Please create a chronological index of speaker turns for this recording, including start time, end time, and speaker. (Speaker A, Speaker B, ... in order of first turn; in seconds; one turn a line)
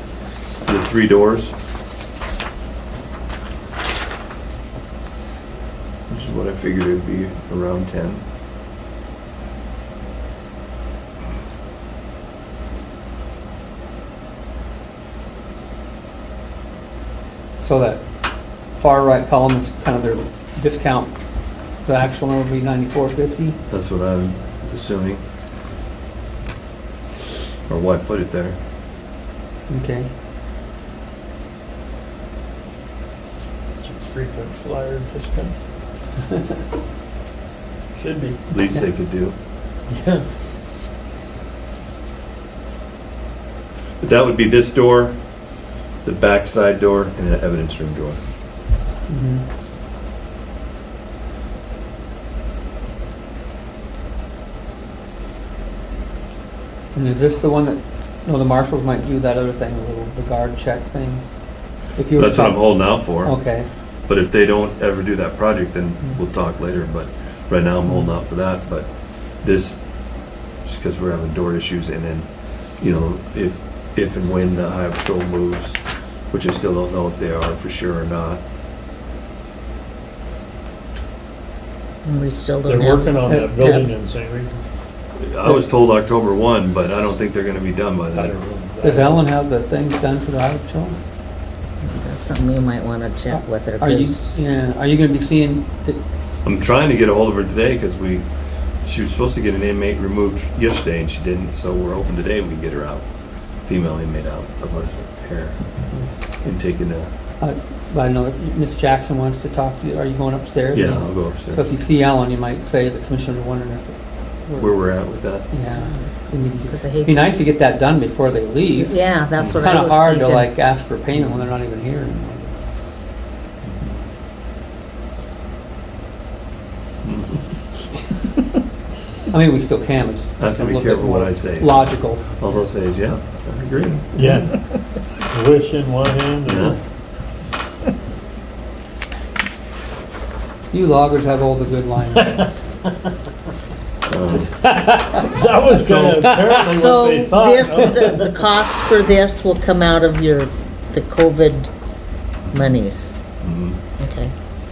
Speaker A: 0.6-1.6
Speaker A: 6.1-8.2
Speaker B: 17.6-18.0
Speaker B: 18.8-21.1
Speaker B: 21.8-23.6
Speaker A: 23.7-25.2
Speaker A: 27.7-28.6
Speaker B: 29.7-30.1
Speaker C: 33.8-35.5
Speaker C: 38.0-38.4
Speaker A: 38.5-39.4
Speaker C: 39.9-40.3
Speaker A: 44.0-45.2
Speaker A: 46.0-48.2
Speaker B: 49.1-49.5
Speaker B: 56.9-61.2
Speaker B: 61.9-63.7
Speaker A: 62.2-63.4
Speaker A: 64.1-68.9
Speaker A: 69.4-69.8
Speaker A: 70.7-72.3
Speaker A: 72.8-78.4
Speaker D: 82.0-83.8
Speaker C: 82.7-84.5
Speaker B: 83.3-83.8
Speaker A: 85.2-88.3
Speaker C: 88.2-89.2
Speaker B: 88.8-91.0
Speaker D: 91.9-94.3
Speaker B: 93.3-96.0
Speaker A: 96.4-98.3
Speaker A: 98.8-103.1
Speaker A: 103.6-105.6
Speaker A: 106.4-107.1
Speaker B: 107.4-122.5
Speaker A: 110.7-111.7
Speaker A: 114.6-115.5
Speaker D: 116.7-117.3
Speaker D: 118.8-120.5
Speaker A: 127.0-127.5
Speaker B: 129.3-132.6
Speaker A: 130.4-134.3
Speaker C: 134.2-134.7
Speaker C: 135.3-136.8
Speaker A: 136.5-136.8
Speaker B: 140.7-142.6
Speaker A: 144.1-144.7
Speaker B: 144.7-145.2
Speaker C: 145.2-148.4
Speaker A: 145.7-146.6
Speaker B: 146.3-146.6
Speaker D: 146.7-151.7
Speaker D: 152.5-153.2
Speaker A: 153.4-153.8
Speaker D: 154.0-154.3